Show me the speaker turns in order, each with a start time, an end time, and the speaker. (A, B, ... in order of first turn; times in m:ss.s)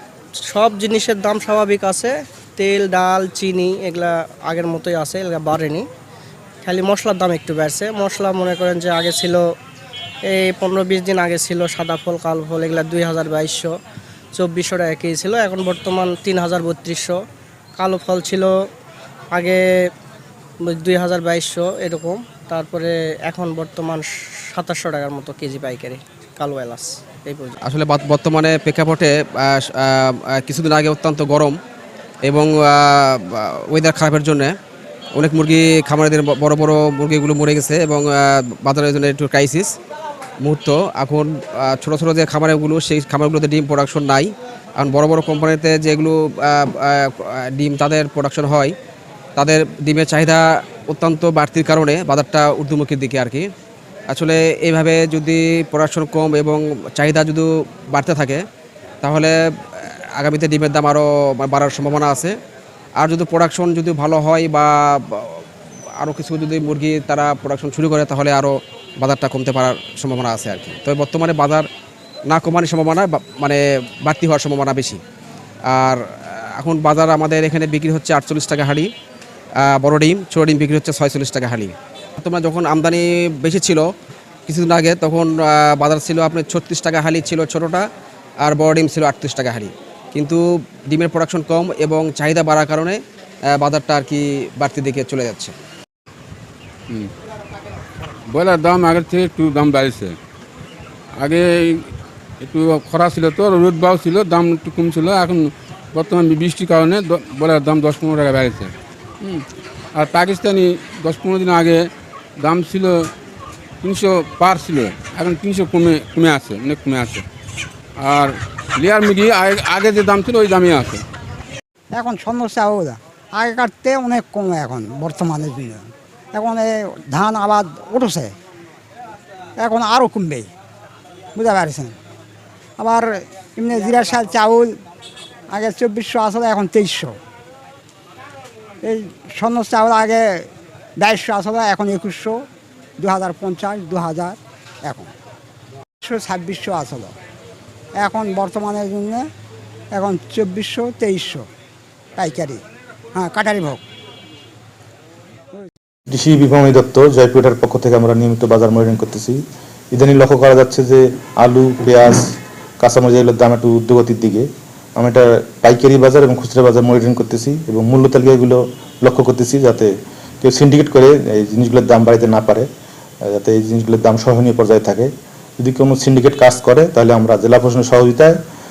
0:00.6-0:05.8 A
0:03.0-0:03.9 B
0:04.6-0:05.6 B
0:06.6-0:09.4 A
0:08.7-0:09.2 B
0:10.6-0:13.6 A
0:11.2-0:13.6 B
0:14.4-0:17.1 A
0:14.6-0:17.1 B
0:17.8-0:18.4 A
0:18.0-0:18.3 B
0:20.8-0:24.0 A
0:20.9-0:22.1 B
0:24.6-0:25.9 A
0:25.2-0:25.9 B
0:26.4-0:27.4 A
0:26.5-0:26.8 B
0:27.6-0:31.6 C
0:32.2-0:34.5 C
0:35.1-0:39.8 C
0:40.4-0:48.7 C
0:49.4-0:53.5 C
0:54.1-0:58.4 C
0:59.0-1:02.4 C
1:03.0-1:05.4 C
1:06.0-1:11.7 C
1:12.3-1:15.0 C
1:15.7-1:18.9 C
1:19.6-1:23.9 C
1:24.5-1:27.8 C
1:28.4-1:35.5 C
1:38.3-1:40.1 B
1:41.2-1:41.8 B
1:42.4-1:48.7 B
1:49.9-1:51.8 B
1:52.4-1:52.9 B
1:53.8-1:57.2 B
1:58.0-2:01.0 B
2:01.9-2:05.8 D
2:06.3-2:08.3 D
2:09.6-2:10.5 D
2:11.4-2:11.9 D
2:12.8-2:14.7 D
2:15.5-2:17.1 D
2:18.8-2:20.2 D
2:21.0-2:22.4 D
2:23.0-2:25.1 D
2:26.0-2:27.1 D
2:28.0-2:29.2 D
2:29.9-2:31.4 D
2:32.2-2:32.6 D
2:33.1-2:33.8 D
2:36.1-2:39.4 E
2:39.9-2:42.2 E
2:42.8-2:52.6 E
2:53.2-2:58.4 E